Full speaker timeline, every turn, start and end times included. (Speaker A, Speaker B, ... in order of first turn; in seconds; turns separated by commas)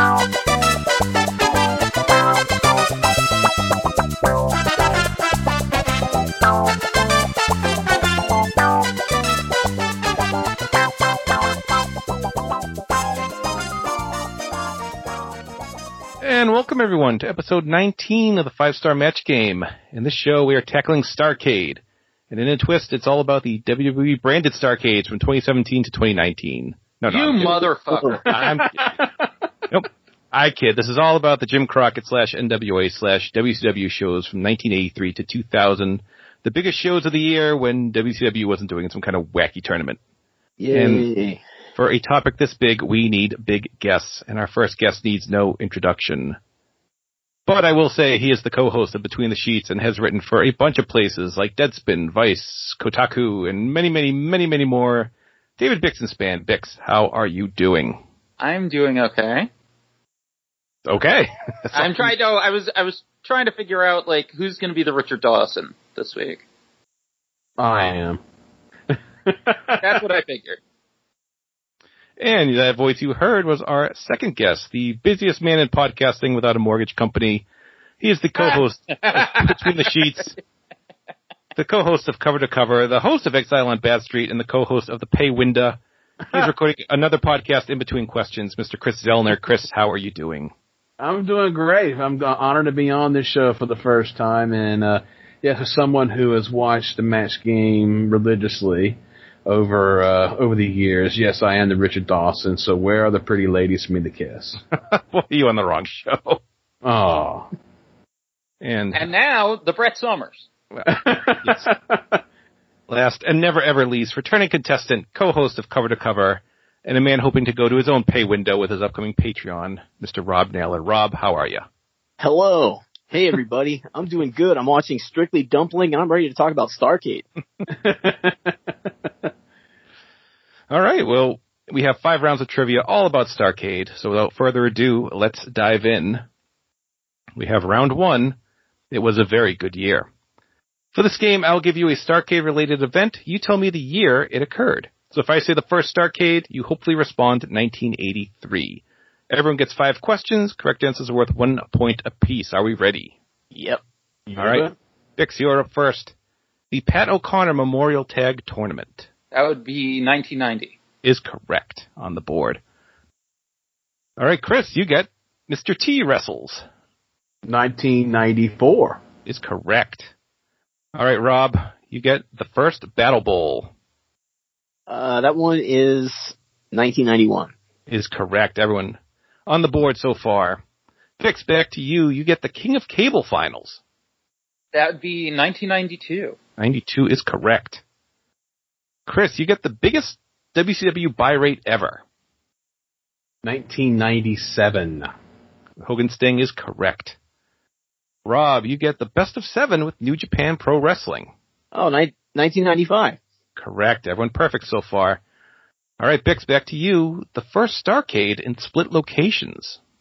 Speaker A: 16.2-28.9, Speaker B: 27.1-28.3, Speaker C: 27.9-28.1, Speaker D: 28.3-29.1, Speaker A: 29.7-40.0, Speaker C: 40.6-41.4, Speaker A: 40.7-41.0, Speaker A: 41.8-46.4, Speaker A: 47.5-58.0, Speaker B: 58.4-59.5, Speaker A: 60.8-62.1, Speaker B: 61.7-66.4, Speaker D: 67.6-68.2, Speaker D: 69.2-69.8, Speaker B: 69.8-70.6, Speaker A: 72.2-77.4, Speaker A: 78.0-80.3, Speaker B: 78.4-79.9, Speaker A: 81.5-90.5, Speaker D: 91.0-104.6, Speaker A: 104.9-106.4, Speaker D: 106.8-107.5, Speaker A: 108.6-109.1, Speaker B: 108.9-110.5, Speaker D: 110.8-112.2, Speaker A: 111.4-111.7, Speaker A: 112.9-121.6, Speaker C: 122.2-127.2, Speaker D: 127.7-128.5, Speaker A: 130.7-136.2, Speaker A: 137.3-138.3, Speaker A: 138.9-140.1, Speaker A: 140.9-153.2, Speaker C: 153.5-153.8, Speaker D: 154.3-154.7, Speaker A: 154.4-154.7, Speaker A: 155.2-156.1, Speaker A: 156.7-159.1, Speaker B: 159.3-160.8, Speaker A: 161.0-162.6, Speaker A: 164.2-166.6, Speaker D: 167.4-169.0, Speaker A: 169.2-170.1, Speaker A: 170.9-173.7, Speaker C: 174.9-177.5, Speaker A: 177.9-180.6, Speaker A: 181.2-183.8, Speaker B: 184.7-186.4, Speaker A: 186.6-187.8, Speaker A: 189.1-192.0, Speaker D: 193.4-195.1, Speaker A: 195.8-197.2, Speaker A: 198.2-201.3, Speaker C: 201.7-203.2, Speaker A: 203.6-205.2, Speaker A: 206.0-209.8